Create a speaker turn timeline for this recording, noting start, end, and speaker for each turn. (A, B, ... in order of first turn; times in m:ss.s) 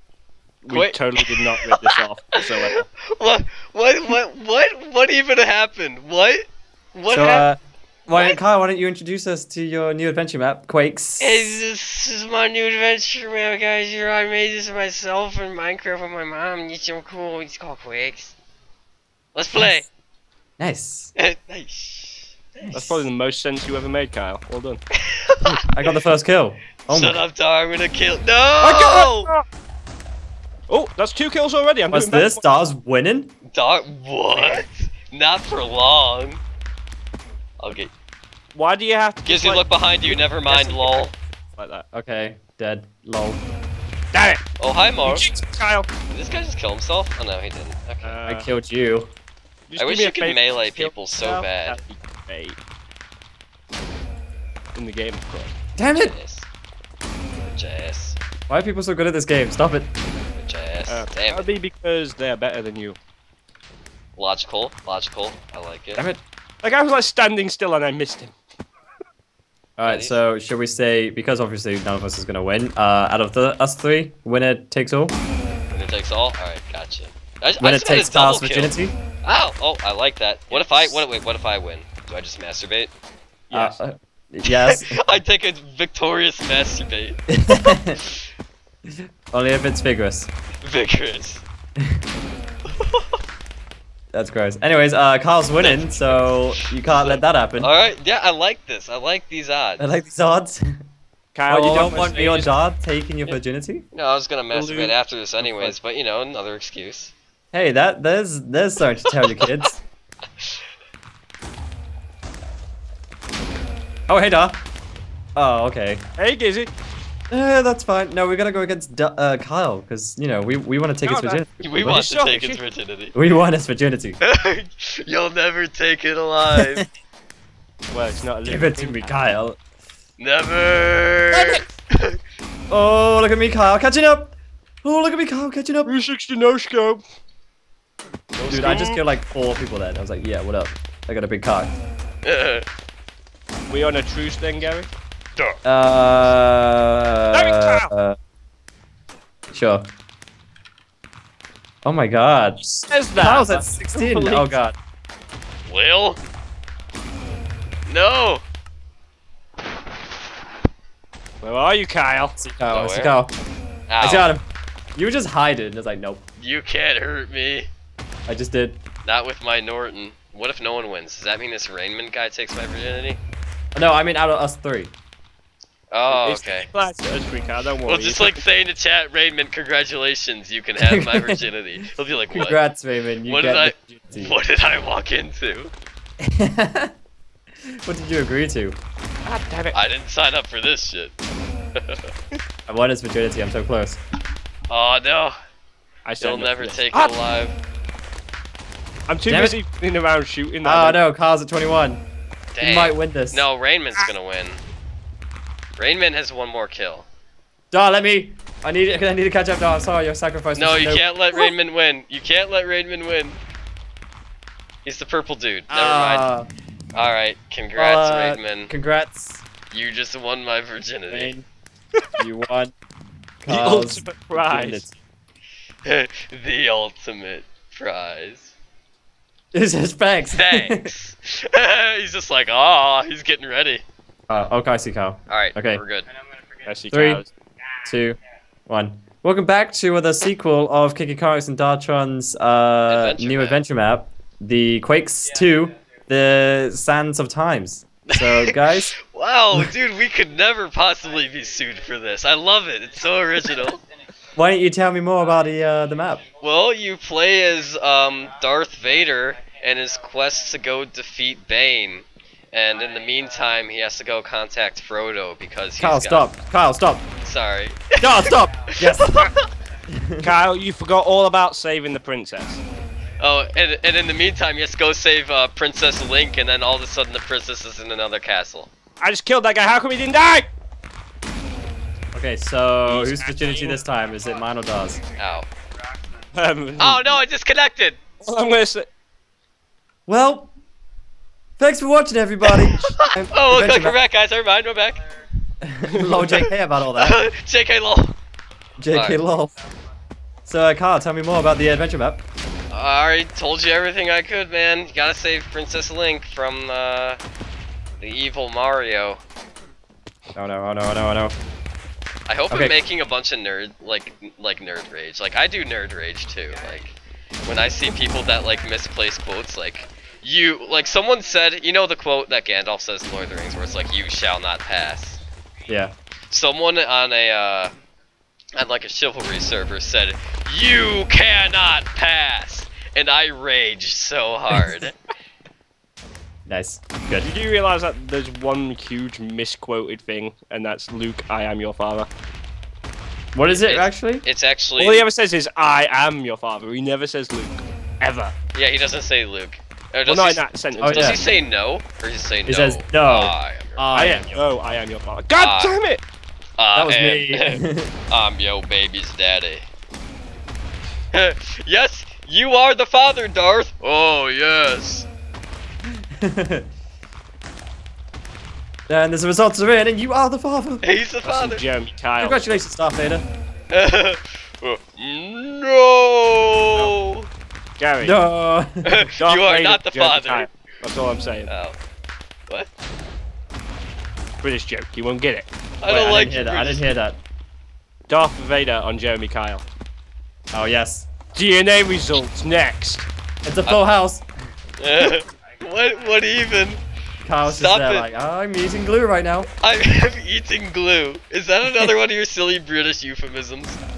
0:00.6-0:02.8 A
0:00.7-0:02.0 B
0:02.6-0:07.5 B
0:07.1-0:11.5 C
0:11.2-0:18.3 B
0:19.3-0:19.9 B
0:19.5-0:19.8 C
0:20.6-0:21.1 C
0:21.1-0:22.7 B
0:22.6-0:23.1 C
0:22.7-0:24.8 A
0:25.0-0:25.7 B
0:25.4-0:27.2 C
0:26.8-0:29.3 B
0:28.6-0:29.4 A
0:30.7-0:32.5 A
0:31.9-0:33.3 C
0:33.5-0:36.4 B
0:34.3-0:34.6 A
0:37.6-0:37.9 B
0:38.5-0:41.8 A
0:39.2-0:41.1 B
0:41.9-0:43.4 C
0:44.1-0:44.4 A
0:44.6-0:45.3 B
0:45.0-0:45.9 A
0:46.1-0:48.2 B
0:48.0-0:48.5 A
0:48.2-0:49.1 C
0:49.7-0:52.6 A
0:49.8-0:51.8 B
0:54.7-0:55.5 A
0:55.8-0:56.1 C
0:55.9-0:56.4 B
0:57.4-0:58.2 B
0:58.5-0:59.9 C
1:00.4-1:01.5 B
1:00.9-1:03.0 A
1:04.2-1:06.1 B
1:05.9-1:06.2 C
1:06.6-1:08.3 A
1:09.8-1:15.2 C
1:09.8-1:10.2 B
1:15.7-1:22.9 B
1:17.6-1:18.9 C
1:23.5-1:23.8 A
1:23.5-1:25.0 C
1:24.4-1:28.1 B
1:27.3-1:28.0 C
1:28.9-1:30.3 C
1:30.6-1:31.4 B
1:32.7-1:33.0 B
1:34.1-1:37.7 C
1:35.6-1:39.9 B
1:39.8-1:40.6 C
1:41.3-1:42.5 A
1:41.5-1:43.8 C
1:43.9-1:47.1 B
1:44.5-1:44.9 A
1:45.5-1:45.8 A
1:47.5-1:49.8 C
1:49.0-1:49.6 B
1:54.1-1:54.6 C
1:55.4-1:56.0 C
1:56.2-1:56.7 A
1:57.3-2:02.1 C
2:01.0-2:02.6 A
2:01.6-2:03.2 B
2:03.1-2:04.2 C
2:04.2-2:06.9 B
2:06.5-2:06.8 C
2:07.9-2:09.2 A
2:08.4-2:09.6 C
2:10.2-2:12.2 B
2:11.3-2:11.7 A
2:12.7-2:14.3 C
2:14.8-2:15.9 C
2:15.8-2:17.0 A
2:18.3-2:19.0 A
2:18.5-2:21.8 C
2:22.2-2:22.6 B
2:23.7-2:25.5 A
2:25.6-2:28.2 C
2:27.3-2:27.9 A
2:29.5-2:29.9 C
2:31.8-2:34.7 C
2:32.9-2:34.6 A
2:35.7-2:36.2 B
2:37.9-2:38.4 B
2:41.4-2:42.4 A
2:42.4-2:43.3 C
2:42.7-2:43.1 B
2:43.9-2:44.3 B
2:44.0-2:44.4 C
2:45.0-2:46.2 C
2:46.4-2:47.7 B
2:48.3-2:48.8 C
2:49.0-2:53.2 B
2:53.7-2:54.9 C
2:55.9-2:56.7 B
2:56.0-2:58.4 A
2:57.8-3:02.6 B
3:00.8-3:01.4 C
3:02.3-3:04.4 C
3:03.2-3:05.7 B
3:06.2-3:06.9 C
3:07.8-3:08.8 C
3:09.2-3:09.8 A
3:09.7-3:11.2 B
3:11.8-3:12.0 B
3:12.7-3:14.0 C
3:14.7-3:15.3 B
3:16.0-3:17.1 A
3:16.2-3:17.6 B
3:19.1-3:21.0 A
3:19.2-3:19.6 C
3:20.6-3:22.0 C
3:22.5-3:24.6 B
3:22.6-3:23.5 C
3:25.8-3:27.0 B
3:27.7-3:31.5 C
3:30.5-3:33.4 B
3:34.8-3:36.3 B
3:35.7-3:36.4 C
3:36.9-3:38.7 B
3:37.7-3:39.4 C
3:39.7-3:41.3 B
3:41.1-3:41.4 C
3:42.2-3:42.7 C
3:43.4-3:45.0 C
3:43.5-3:44.8 A
3:45.8-3:48.5 B
3:49.5-3:50.9 C
3:50.3-3:53.8 B
3:54.3-3:55.8 C
3:55.3-3:56.1 B
3:56.6-3:57.3 A
3:56.9-3:57.2 C
3:57.8-3:58.2 C
3:58.7-4:09.7 C
4:02.9-4:03.6 B
4:08.1-4:13.8 B
4:14.3-4:16.3 C
4:16.3-4:26.3 B
4:25.8-4:27.1 C
4:27.2-4:29.4 B
4:28.0-4:29.1 C
4:29.9-4:30.3 C
4:30.2-4:32.6 A
4:33.2-4:38.7 B
4:39.0-4:40.5 A
4:42.1-4:45.0 C
4:42.8-4:43.8 A
4:45.2-4:45.5 B
4:46.3-4:47.2 A
4:46.8-4:48.0 B
4:48.2-4:48.8 A
4:50.1-4:50.5 C
4:51.6-4:54.0 C
4:52.4-4:55.1 B
4:55.6-4:57.2 C
4:55.9-4:56.4 A
4:56.9-4:58.1 B
4:58.8-4:59.5 C
4:58.9-4:59.2 B
5:00.4-5:02.2 C
5:02.7-5:07.2 B
5:08.0-5:09.2 B
5:10.3-5:11.3 C
5:12.3-5:16.9 B
5:12.5-5:12.8 C
5:17.4-5:25.2 B
5:25.7-5:25.9 C
5:26.3-5:27.7 B
5:28.6-5:34.9 B
5:36.5-5:37.3 C
5:37.2-5:42.1 A
5:43.3-5:44.2 C
5:43.4-5:45.1 B
5:44.8-5:48.3 A
5:48.5-5:53.9 B
5:50.0-5:51.3 A
5:50.8-5:51.2 C
5:52.4-5:54.4 C
5:53.9-5:56.0 A
5:55.3-5:55.7 B
5:56.6-5:59.6 B
5:56.7-5:57.9 C
6:01.1-6:05.1 B
6:06.2-6:06.6 C
6:08.9-6:10.8 C
6:10.8-6:11.6 B
6:11.2-6:12.6 A
6:12.2-6:13.3 C
6:13.7-6:17.3 B
6:17.8-6:18.2 A
6:18.0-6:18.8 C
6:18.8-6:20.5 B
6:19.2-6:21.5 A
6:21.5-6:21.8 B
6:24.4-6:25.4 A
6:25.8-6:26.9 B
6:25.8-6:27.2 C
6:28.1-6:29.6 A
6:30.5-6:31.1 C
6:31.3-6:33.0 A
6:33.4-6:34.2 C
6:34.8-6:36.8 B
6:37.2-6:39.5 C
6:37.4-6:38.1 B
6:39.6-6:43.8 B